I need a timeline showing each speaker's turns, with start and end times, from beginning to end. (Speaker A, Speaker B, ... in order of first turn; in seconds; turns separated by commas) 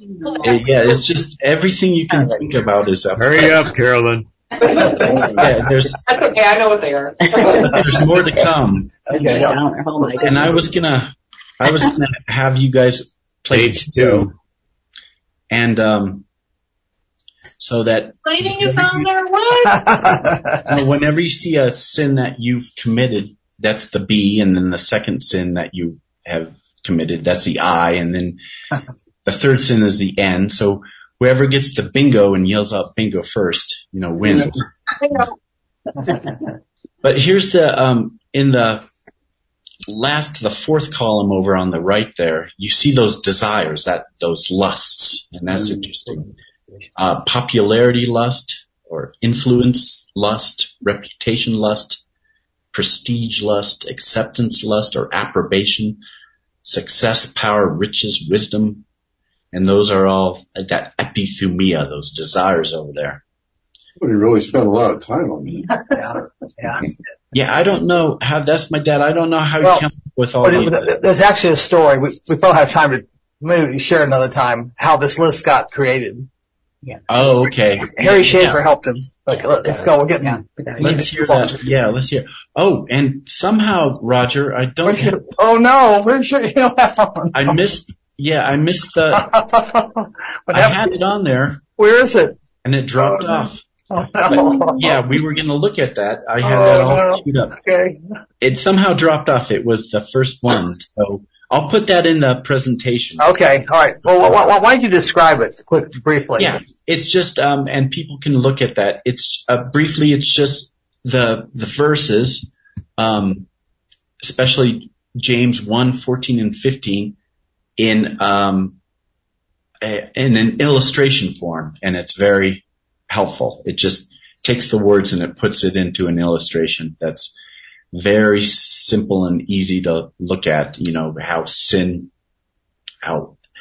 Speaker A: 0.2-0.5, Speaker B: 0.4-3.7, Speaker C: 3.1-4.3, Speaker A: 4.6-5.4, Speaker B: 5.0-6.0, Speaker A: 6.0-7.5, Speaker D: 7.2-8.0, Speaker B: 7.6-9.0, Speaker D: 9.1-10.7, Speaker E: 9.1-9.4, Speaker B: 10.2-14.3, Speaker C: 13.5-14.3, Speaker B: 15.5-16.2, Speaker B: 17.6-19.1, Speaker A: 18.2-20.2, Speaker E: 19.9-20.6, Speaker B: 20.6-28.4, Speaker B: 29.2-34.7, Speaker B: 37.0-38.8, Speaker B: 39.9-46.3, Speaker F: 45.5-45.9, Speaker B: 47.0-52.0, Speaker B: 52.7-56.0, Speaker B: 56.6-58.8, Speaker B: 59.5-63.2, Speaker F: 64.0-66.2, Speaker E: 65.9-66.8, Speaker B: 67.3-71.0, Speaker E: 70.4-76.3, Speaker B: 77.1-78.6, Speaker E: 77.9-81.3, Speaker D: 79.3-81.5, Speaker B: 80.8-85.2, Speaker E: 84.8-87.5, Speaker B: 87.3-89.3, Speaker E: 89.1-90.8, Speaker B: 90.5-91.6, Speaker E: 91.8-92.3, Speaker B: 92.6-93.6, Speaker E: 93.0-95.0, Speaker B: 94.2-97.6, Speaker E: 96.4-98.0, Speaker B: 98.4-103.2, Speaker E: 103.2-106.6, Speaker B: 106.4-113.5, Speaker B: 114.2-117.2, Speaker B: 117.8-118.8, Speaker B: 119.8-127.3, Speaker B: 127.9-132.1, Speaker B: 133.0-133.4